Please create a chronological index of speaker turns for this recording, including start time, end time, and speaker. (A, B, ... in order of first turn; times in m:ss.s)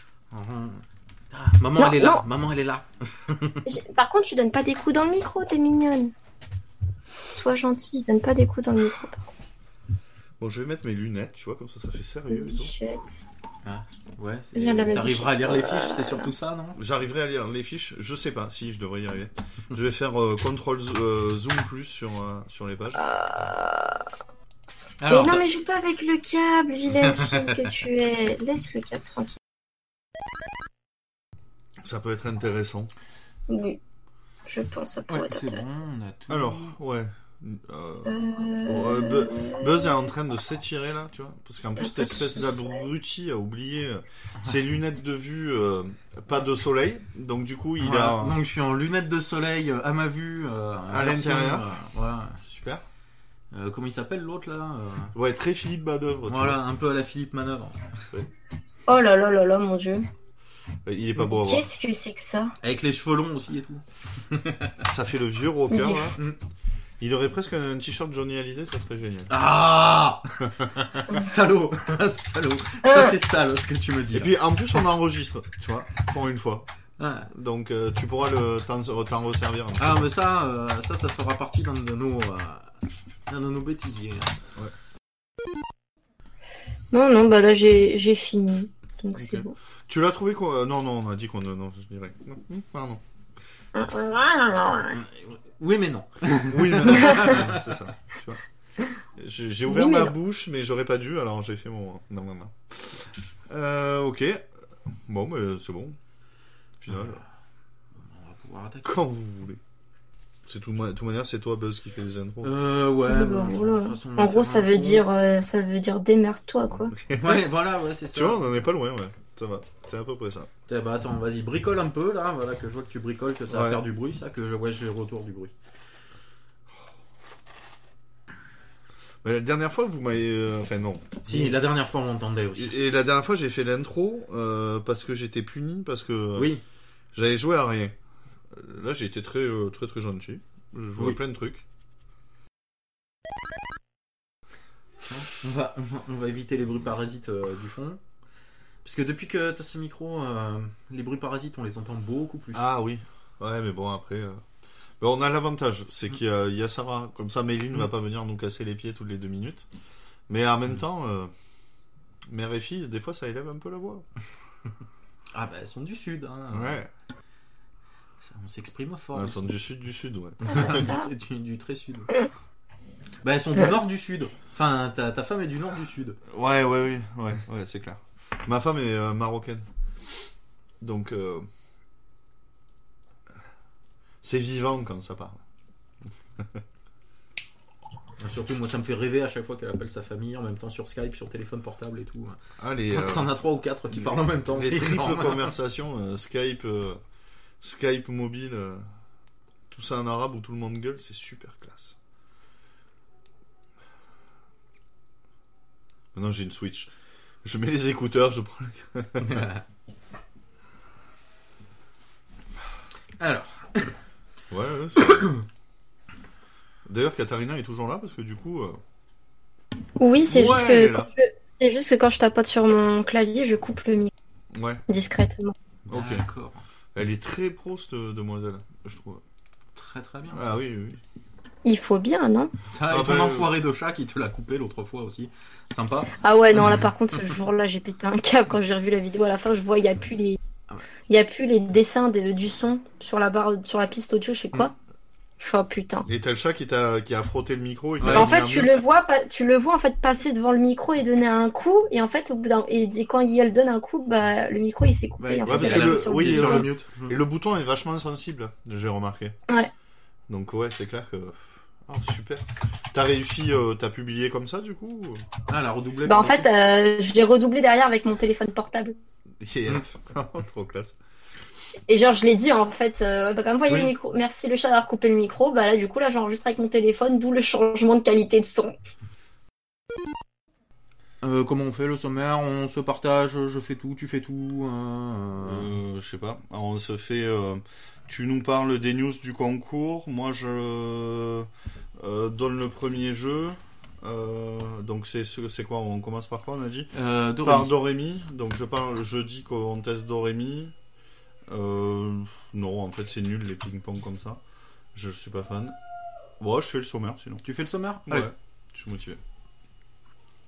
0:00.3-0:03.6 A
0:01.8-0:02.2 B
0:03.6-0:06.1 B
0:07.3-0:09.3 B
0:10.4-0:12.7 C
0:12.3-0:13.2 B
0:13.6-0:16.8 A
0:14.5-0:16.3 B
0:16.8-0:23.0 C
0:23.0-0:24.0 B
0:25.0-0:25.4 A
0:25.1-0:29.4 B
0:26.9-0:27.7 A
0:31.8-0:32.9 C
0:33.5-0:33.8 B
0:34.4-0:35.6 B
0:35.1-0:36.8 A
0:36.3-0:48.4 C
0:38.0-0:39.9 B
0:41.8-0:42.8 B
0:47.8-0:52.4 A
0:50.9-0:51.7 C
0:52.4-0:52.8 C
0:53.5-0:55.1 A
0:55.1-0:56.6 C
0:56.3-0:57.8 A
0:58.9-1:00.0 B
1:00.8-1:01.7 C
1:01.2-1:02.5 B
1:02.6-1:04.8 A
1:04.8-1:06.2 C
1:05.7-1:06.2 B
1:07.0-1:09.3 C
1:09.3-1:14.4 A
1:12.8-1:13.1 B
1:14.1-1:16.7 C
1:17.0-1:17.3 A
1:17.3-1:20.1 C
1:19.8-1:24.4 A
1:26.9-1:29.5 B
1:29.1-1:33.0 C
1:33.7-1:35.0 B
1:34.9-1:37.6 A
1:36.4-1:38.4 C
1:39.2-1:44.5 C
1:39.7-1:40.1 B
1:45.1-1:46.0 C
1:46.8-1:47.2 C
1:48.0-1:48.9 A
1:48.8-1:49.6 C
1:50.4-1:52.5 C
1:52.4-1:55.0 A
1:53.0-1:56.9 B
1:56.9-1:57.5 C
1:57.2-1:58.4 A
1:58.1-2:00.5 C
2:00.7-2:05.5 A
2:03.5-2:03.8 C
2:09.2-2:11.6 C
2:11.2-2:12.8 A
2:12.6-2:16.5 C
2:16.4-2:16.6 A
2:17.1-2:17.9 C
2:18.5-2:21.6 C
2:25.1-2:28.0 A
2:28.8-2:32.7 A
2:32.5-2:34.4 C
2:35.0-2:39.7 C
2:40.3-2:41.3 C
2:42.3-2:44.0 C
2:45.3-2:46.8 A
2:46.5-2:46.9 C
2:48.2-2:49.5 A
2:49.1-2:50.9 C
2:50.4-2:52.1 A
2:50.5-2:51.1 B
2:53.2-2:56.2 A
2:56.3-2:59.6 C
3:00.8-3:01.5 C
3:04.2-3:05.4 C
3:06.4-3:06.6 C
3:08.2-3:15.5 A
3:12.6-3:13.3 C
3:13.9-3:17.0 C
3:17.6-3:18.8 C
3:19.7-3:22.0 C
3:26.1-3:26.9 C
3:27.4-3:29.5 C
3:29.2-3:29.6 A
3:33.2-3:33.9 A
3:34.5-3:35.4 C
3:36.9-3:38.8 C
3:40.0-3:44.1 B
3:40.2-3:41.1 C
3:44.5-3:44.8 C
3:44.9-3:45.5 B
3:45.8-3:46.2 C
3:45.9-3:46.6 A
3:46.9-3:49.2 C
3:49.7-3:50.6 A
3:50.3-3:51.0 C
3:51.6-3:52.5 B
3:52.7-3:56.9 A
3:52.9-3:53.5 C
3:56.2-4:00.4 B
4:01.1-4:04.7 B
4:05.4-4:06.1 B
4:06.1-4:08.8 C
4:08.0-4:08.3 A
4:08.0-4:16.7 B
4:15.2-4:17.2 A
4:15.4-4:19.4 C
4:20.3-4:25.2 C
4:25.5-4:26.5 A
4:26.0-4:29.0 B
4:29.4-4:31.0 C
4:31.9-4:38.7 B
4:33.7-4:33.9 A
4:41.2-4:45.8 A
4:45.4-5:00.7 C
4:56.9-4:57.7 A
5:01.5-5:04.4 C
5:04.9-5:05.8 C
5:06.4-5:07.4 C
5:07.4-5:08.3 A
5:08.1-5:09.2 C